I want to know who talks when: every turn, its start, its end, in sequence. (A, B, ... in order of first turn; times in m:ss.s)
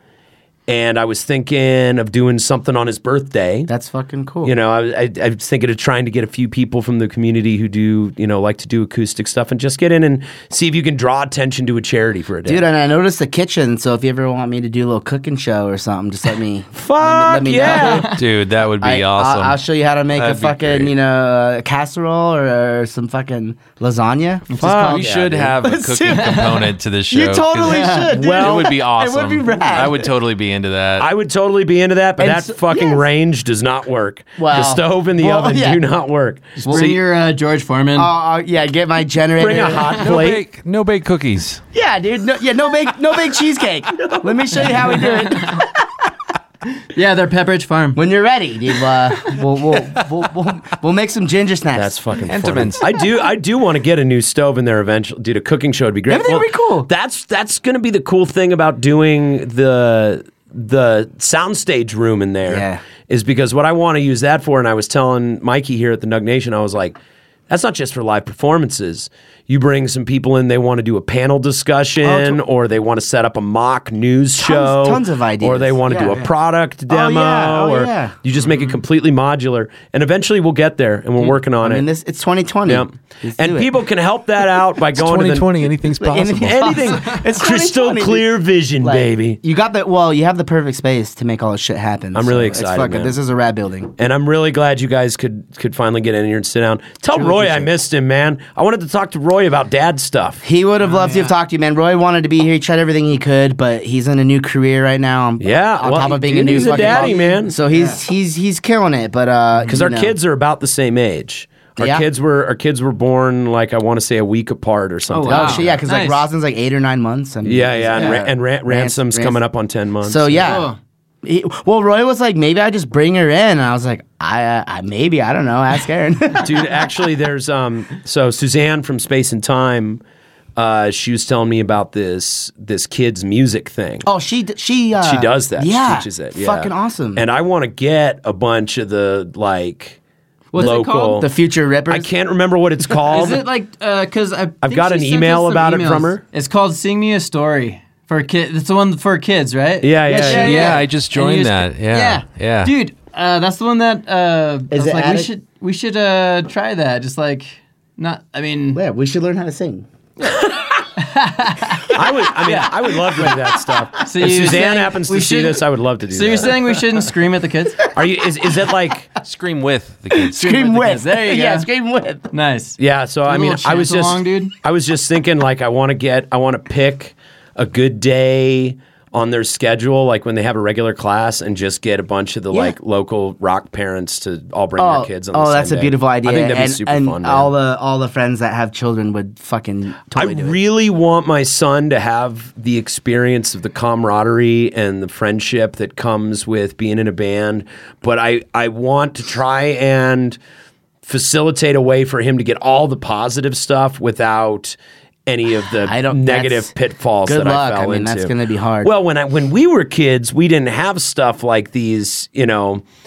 0:00.7-0:03.7 A
0:03.7-0:04.5 B
0:04.4-0:12.6 A
0:12.4-0:18.2 B
0:16.7-0:18.1 A
0:17.6-0:18.2 C
0:18.1-0:19.6 D
0:18.8-0:30.1 B
0:20.1-0:20.9 D
0:24.5-0:25.0 C
0:24.6-0:25.5 A
0:24.6-0:31.1 D
0:26.1-0:26.7 C
0:27.6-0:28.1 C
0:28.1-0:28.7 A
0:31.0-0:37.0 A
0:32.2-0:33.1 B
0:34.4-0:35.8 B
0:36.6-0:36.9 B
0:36.7-0:38.1 C
0:37.9-0:39.9 B
0:39.4-0:40.4 A
0:40.0-0:41.6 D
0:41.7-0:46.1 B
0:45.3-0:45.6 C
0:46.8-0:48.0 C
0:47.9-0:51.9 B
0:51.7-1:07.0 A
0:52.2-0:52.9 D
0:56.1-0:56.9 B
1:02.4-1:02.8 B
1:07.5-1:21.8 A
1:12.0-1:12.4 B
1:14.4-1:16.3 B
1:16.9-1:18.1 B
1:18.5-1:18.7 C
1:21.2-1:23.8 B
1:22.6-1:25.7 A
1:24.9-1:26.7 D
1:26.0-1:28.3 B
1:26.3-1:29.4 A
1:28.8-1:33.9 B
1:32.1-1:33.2 A
1:34.0-1:40.4 A
1:37.1-1:37.7 B
1:40.4-1:50.2 B
1:40.8-1:41.3 C
1:45.4-1:47.6 A
1:46.5-1:48.0 C
1:49.7-1:55.8 A
1:51.8-1:52.0 B
1:55.1-1:59.4 B
1:55.2-1:56.2 C
1:57.4-2:00.6 A
1:58.0-1:58.2 C
2:00.0-2:06.9 B
2:00.4-2:00.8 C
2:06.4-2:10.0 A
2:10.6-2:14.1 A
2:14.0-2:17.2 B
2:15.0-2:20.0 A
2:20.5-2:21.2 C
2:20.5-2:22.1 B
2:20.6-2:21.3 A
2:21.9-2:23.4 A
2:22.9-2:38.8 C
2:24.6-2:26.2 A
2:29.8-2:30.7 A
2:30.0-2:30.8 B
2:30.3-2:32.7 D
2:34.7-2:35.3 B
2:38.7-2:39.9 B
2:40.3-2:40.8 A
2:41.0-2:43.3 C
2:41.9-2:46.6 A
2:44.0-2:47.9 C
2:47.9-2:49.1 A
2:49.2-2:50.4 D
2:50.1-2:52.3 B
2:50.4-2:51.7 C
2:52.3-2:54.5 C
2:52.8-3:07.5 A
3:02.5-3:02.8 B
3:04.8-3:10.6 B
3:10.1-3:20.4 A
3:21.0-3:32.8 A
3:25.8-3:26.7 B
3:27.2-3:28.9 B